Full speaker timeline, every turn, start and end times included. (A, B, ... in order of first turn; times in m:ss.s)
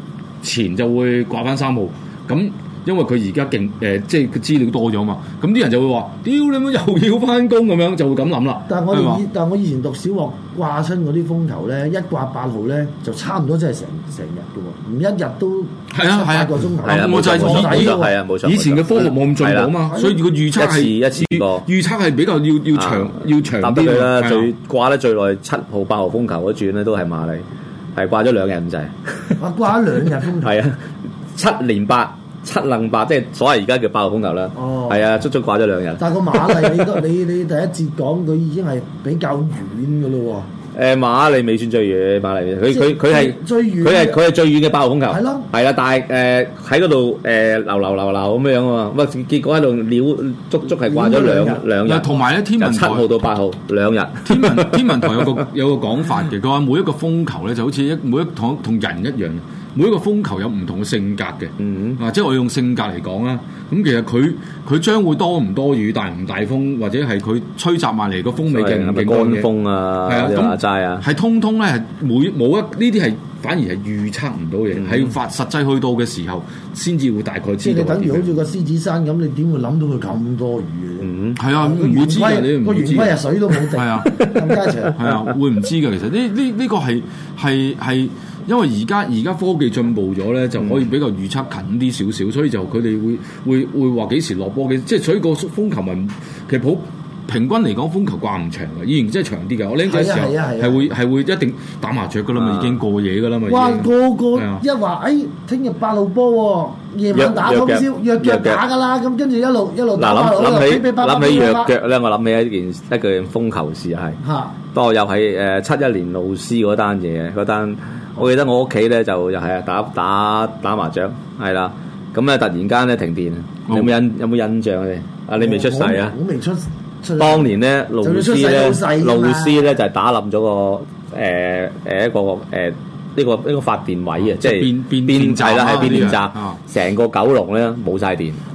0:00.4-0:09.2 A
0:08.7-0:18.2 B
0:15.9-0:24.5 A
0:16.8-0:19.8 C
0:19.9-0:20.2 B
0:20.5-0:21.6 C
0:22.7-0:29.4 C
0:29.4-0:30.5 B
0:30.4-0:37.0 C
0:34.5-0:35.0 B
0:36.0-0:40.5 B
0:40.7-0:55.3 C
0:42.7-0:44.2 B
0:45.1-0:45.5 B
0:50.7-0:51.6 B
0:51.8-0:53.2 A
0:54.2-1:09.5 A
1:01.6-1:02.0 C
1:08.5-1:11.0 C
1:10.0-1:18.3 A
1:14.7-1:15.1 C
1:17.6-1:25.0 B
1:21.0-1:21.4 C
1:21.4-1:23.2 A
1:23.7-1:24.2 A
1:24.9-1:44.6 A
1:39.8-1:40.9 B
1:42.3-1:42.8 C
1:43.4-1:51.7 B
1:47.1-1:48.6 C
1:50.0-1:54.2 C
1:54.2-1:54.5 B
1:54.7-2:06.2 C
2:05.4-2:09.6 B
2:07.2-2:18.4 C
2:14.2-2:16.6 A